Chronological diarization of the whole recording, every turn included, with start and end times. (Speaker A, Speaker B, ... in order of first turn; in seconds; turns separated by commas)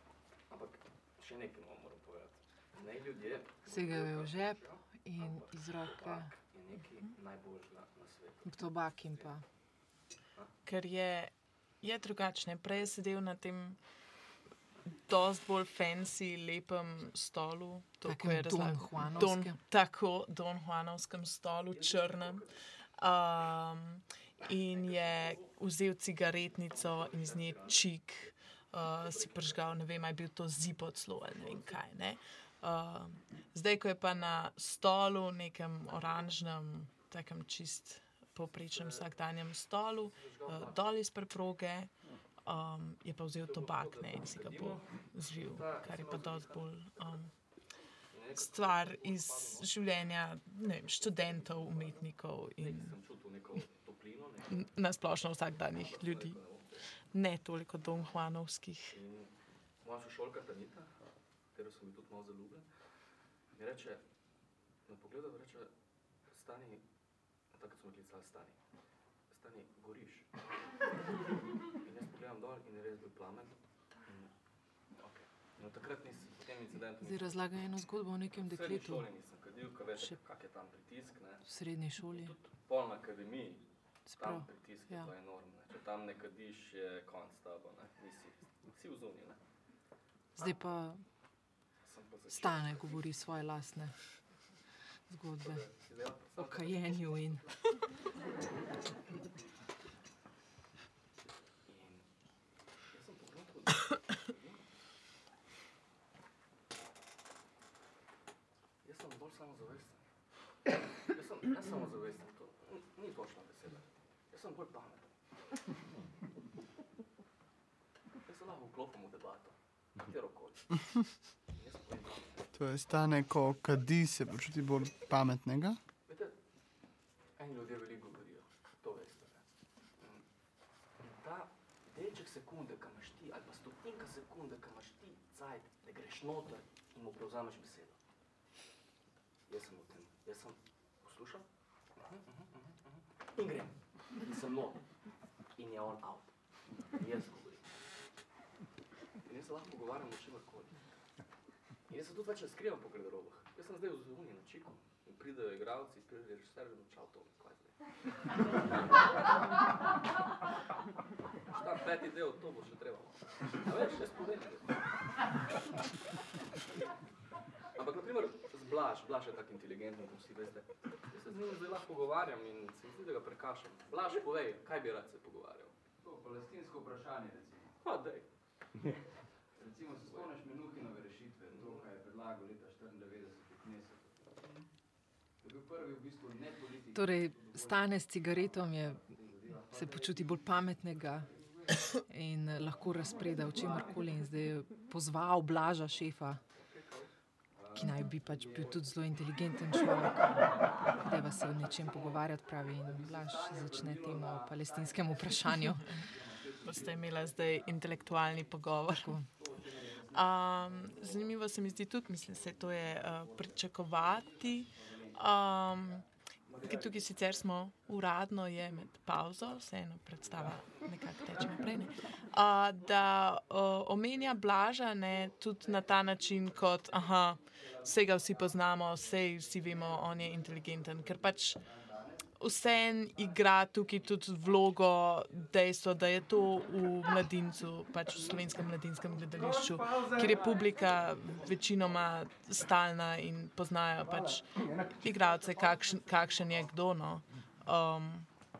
Speaker A: 0.5-9.3, Speaker B: 3.6-6.3, Speaker B: 8.4-9.4, Speaker C: 10.6-13.8, Speaker C: 15.1-22.4, Speaker B: 18.0-19.6, Speaker A: 21.7-22.5, Speaker C: 23.0-41.9, Speaker A: 24.4-25.5, Speaker A: 26.3-27.8, Speaker A: 29.0-29.6, Speaker A: 31.3-31.7, Speaker A: 35.9-36.2, Speaker A: 38.5-39.1, Speaker A: 40.1-40.8, Speaker C: 42.4-47.3, Speaker A: 43.4-47.1, Speaker A: 48.1-49.8, Speaker C: 48.3-52.9, Speaker A: 50.9-52.0, Speaker A: 52.6-54.7, Speaker C: 54.5-56.4, Speaker A: 55.6-56.9, Speaker C: 57.1-59.0, Speaker A: 58.9-59.3, Speaker A: 59.8-62.6, Speaker A: 63.5-64.0, Speaker A: 64.8-65.7, Speaker A: 66.3-66.8, Speaker A: 67.5-68.6, Speaker A: 69.3-70.3, Speaker A: 71.7-74.3, Speaker A: 75.0-77.4, Speaker B: 77.0-79.1, Speaker A: 78.3-81.4, Speaker B: 81.5-82.3, Speaker A: 82.1-83.6, Speaker B: 84.1-85.1, Speaker A: 84.2-89.4, Speaker B: 90.4-91.0, Speaker A: 91.8-93.0, Speaker B: 92.3-94.0, Speaker B: 95.1-95.7, Speaker A: 95.4-97.7, Speaker B: 96.3-97.5, Speaker A: 101.7-102.0, Speaker A: 102.9-104.6, Speaker A: 108.8-110.0, Speaker A: 111.0-115.1, Speaker A: 118.2-122.5, Speaker D: 122.5-125.8, Speaker A: 126.1-126.3, Speaker A: 127.4-129.4, Speaker A: 130.0-130.2, Speaker A: 131.0-138.0, Speaker A: 139.5-144.8, Speaker A: 145.6-147.7, Speaker A: 149.2-150.8, Speaker A: 151.9-157.8, Speaker A: 161.5-164.8, Speaker A: 167.7-175.8, Speaker E: 176.0-177.7, Speaker A: 177.8-178.2, Speaker E: 179.6-184.1, Speaker A: 179.8-180.4, Speaker A: 181.4-181.9, Speaker A: 185.4-191.7, Speaker B: 186.9-189.1, Speaker B: 189.7-191.3, Speaker B: 192.0-196.4, Speaker A: 196.5-198.9, Speaker B: 197.7-206.0, Speaker A: 199.8-211.7, Speaker C: 206.6-209.1, Speaker B: 208.9-209.3, Speaker C: 210.1-231.6, Speaker A: 212.3-215.2, Speaker A: 216.5-217.4, Speaker A: 220.2-221.6, Speaker A: 225.1-235.5, Speaker C: 232.4-248.3, Speaker A: 238.1-238.4, Speaker E: 239.3-240.8, Speaker A: 240.5-242.1, Speaker E: 244.0-246.7